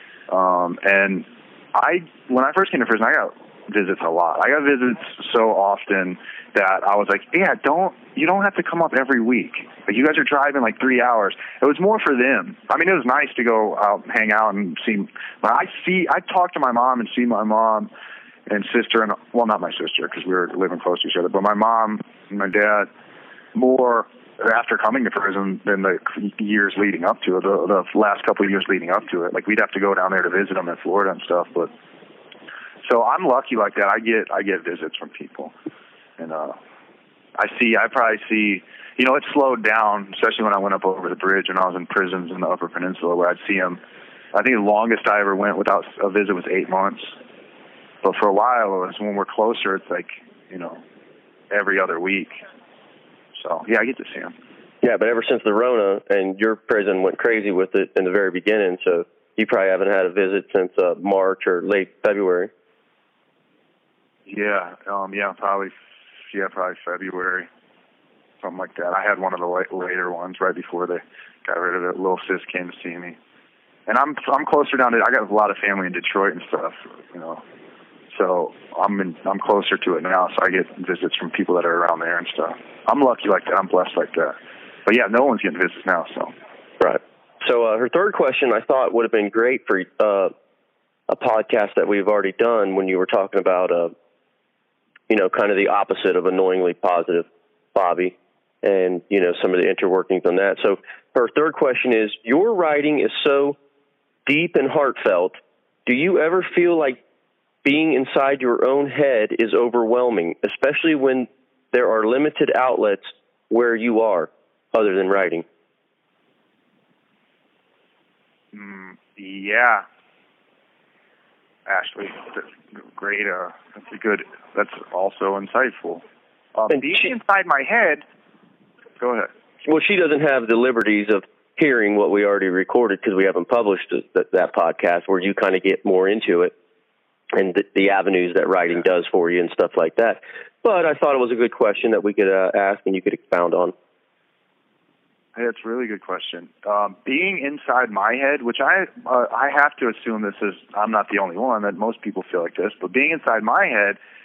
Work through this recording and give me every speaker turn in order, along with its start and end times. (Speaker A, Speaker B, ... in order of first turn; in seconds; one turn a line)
Speaker A: 0.3-17.9
Speaker A: 18.5-22.9
Speaker A: 23.5-31.7
Speaker A: 32.8-35.5
Speaker A: 36.2-36.6
Speaker A: 37.4-43.8
Speaker A: 44.3-47.1
Speaker A: 48.0-50.8
Speaker A: 51.5-52.4
Speaker A: 53.4-54.3
Speaker B: 54.8-62.5
Speaker A: 64.3-65.7
Speaker A: 66.3-67.5
Speaker A: 68.4-73.2
Speaker A: 73.9-77.4
Speaker A: 78.1-84.3
Speaker A: 84.8-86.3
Speaker B: 86.8-90.3
Speaker B: 91.1-93.9
Speaker B: 95.1-103.6
Speaker B: 104.2-107.0
Speaker B: 107.6-115.4
Speaker A: 118.5-119.8
Speaker A: 121.7-126.0
Speaker A: 126.5-128.0
Speaker A: 129.0-129.3
Speaker B: 129.6-136.5
Speaker B: 137.3-143.7
Speaker A: 145.3-154.0